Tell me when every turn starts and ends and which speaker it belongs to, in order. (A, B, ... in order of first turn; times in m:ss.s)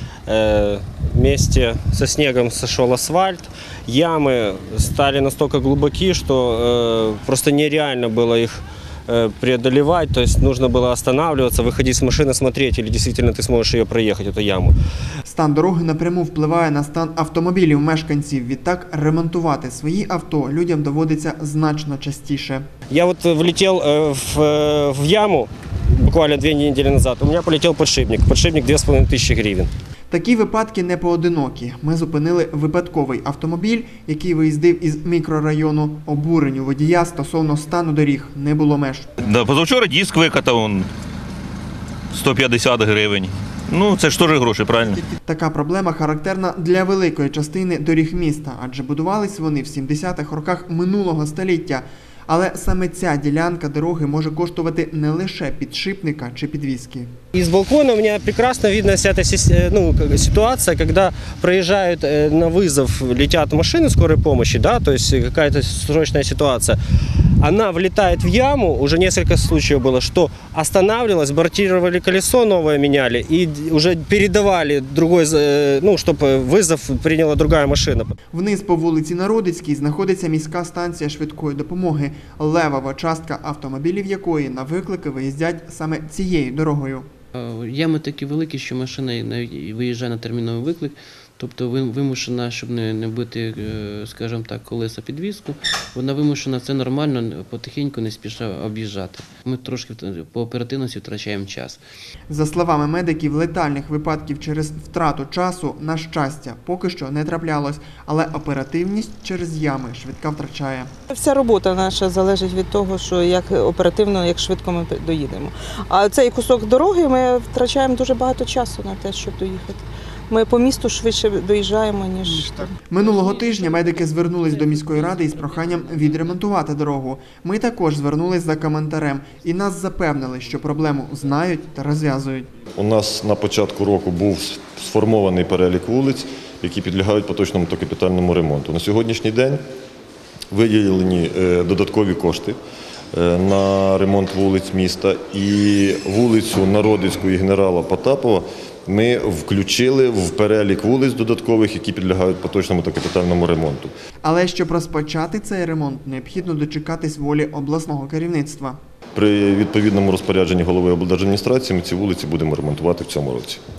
0:00.2-0:14.7 A
0:15.2-0:22.6 B
0:22.9-0:29.7 A
0:30.1-0:39.1 B
0:39.2-0:40.9 C
0:42.1-0:45.0 C
0:45.1-0:57.1 B
0:57.3-1:06.8 A
1:07.4-1:18.1 A
1:18.3-1:27.1 B
1:27.4-1:41.8 D
1:42.3-1:50.9 B
1:51.1-2:02.8 E
2:02.4-2:12.5 B
2:02.9-2:06.4 D
2:12.7-2:19.6 F
2:20.5-2:22.6 F
2:23.1-2:33.9 F
2:34.2-2:38.8 B
2:39.1-2:43.6 F